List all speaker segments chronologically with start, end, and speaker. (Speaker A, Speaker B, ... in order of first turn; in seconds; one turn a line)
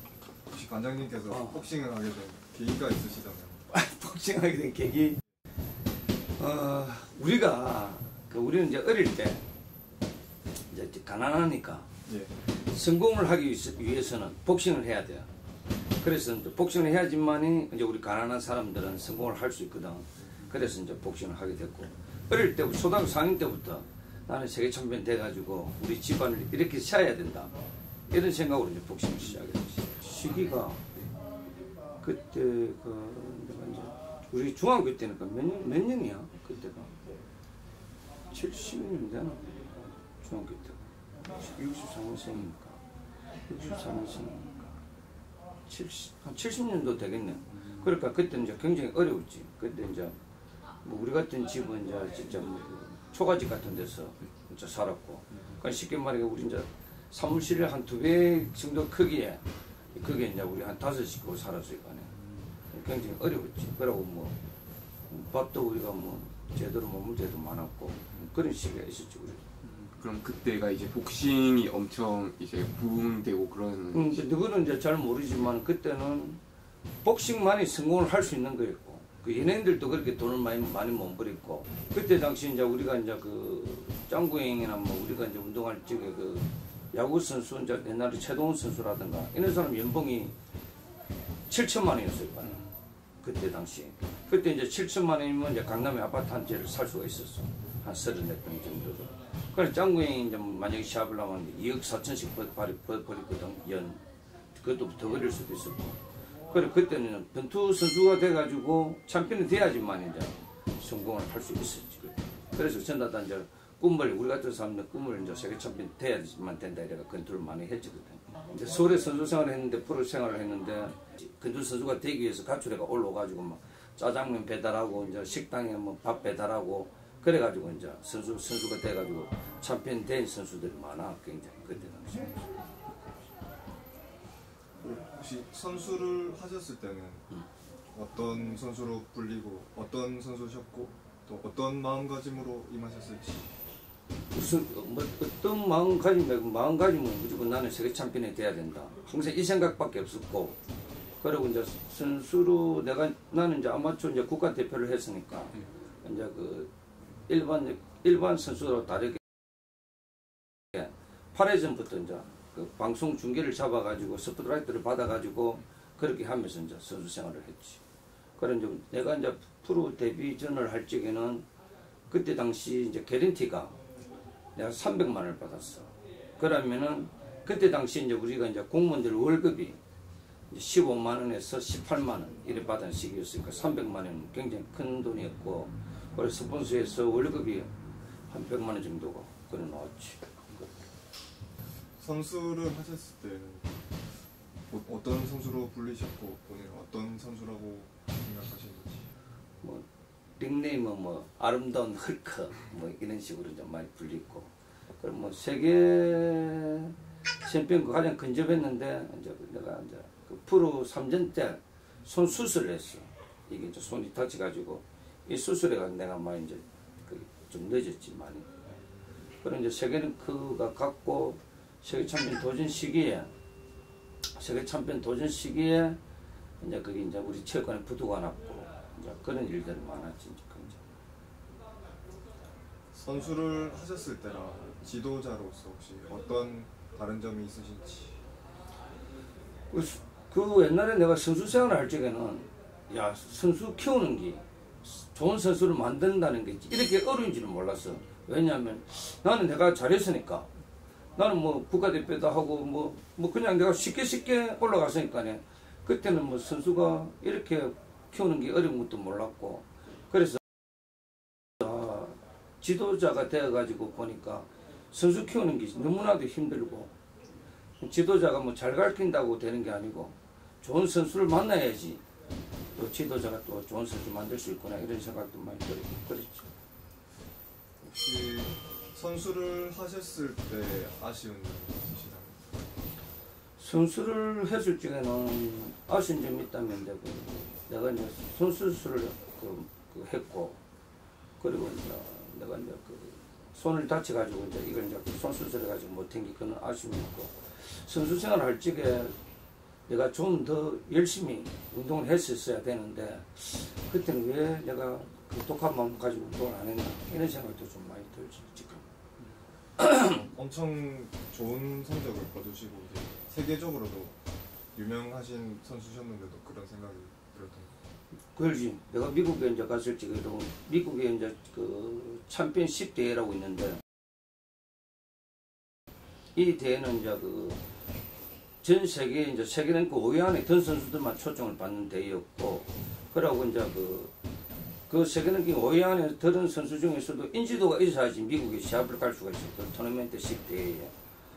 Speaker A: 0.5-3.6
Speaker B: 1.3-1.6
Speaker B: 3.7-5.2
Speaker B: 6.4-9.4
Speaker B: 10.7-11.9
Speaker A: 12.1-12.3
Speaker B: 12.6-15.3
Speaker B: 16.0-27.5
Speaker B: 28.1-30.8
Speaker B: 32.0-36.9
Speaker B: 38.3-39.6
Speaker B: 40.2-40.8
Speaker B: 41.4-42.8
Speaker B: 43.5-44.8
Speaker B: 45.7-50.2
Speaker B: 50.8-59.4
Speaker B: 59.9-62.1
Speaker B: 62.7-64.3
Speaker B: 65.1-69.4
Speaker C: 69.6-74.2
Speaker B: 73.9-76.4
Speaker B: 77.0-90.3
Speaker B: 91.5-92.6
Speaker B: 93.2-104.0
Speaker B: 104.5-106.0
Speaker B: 106.5-132.5
Speaker A: 134.8-137.3
Speaker A: 137.9-143.6
Speaker B: 144.3-150.6
Speaker B: 151.2-156.7
Speaker B: 157.3-159.2
Speaker B: 160.7-167.8
Speaker B: 168.4-171.5
Speaker B: 172.1-173.8
Speaker B: 174.6-179.8
Speaker B: 180.5-187.7
Speaker B: 188.3-190.2
Speaker A: 192.0-193.8
Speaker A: 194.7-199.1
Speaker B: 200.4-218.5
Speaker B: 219.4-223.3
Speaker B: 224.3-226.0
Speaker B: 226.6-230.8
Speaker A: 232.9-238.2
Speaker B: 239.7-250.5
Speaker B: 251.2-260.4
Speaker B: 261.6-266.9
Speaker B: 267.8-272.0
Speaker B: 272.7-276.5
Speaker A: 277.8-282.4
Speaker B: 283.6-290.6
Speaker B: 291.4-299.1
Speaker B: 299.9-308.8
Speaker A: 309.9-314.2
Speaker A: 314.7-317.7
Speaker B: 318.3-323.8
Speaker B: 326.3-327.6
Speaker B: 328.6-334.1
Speaker B: 334.9-340.9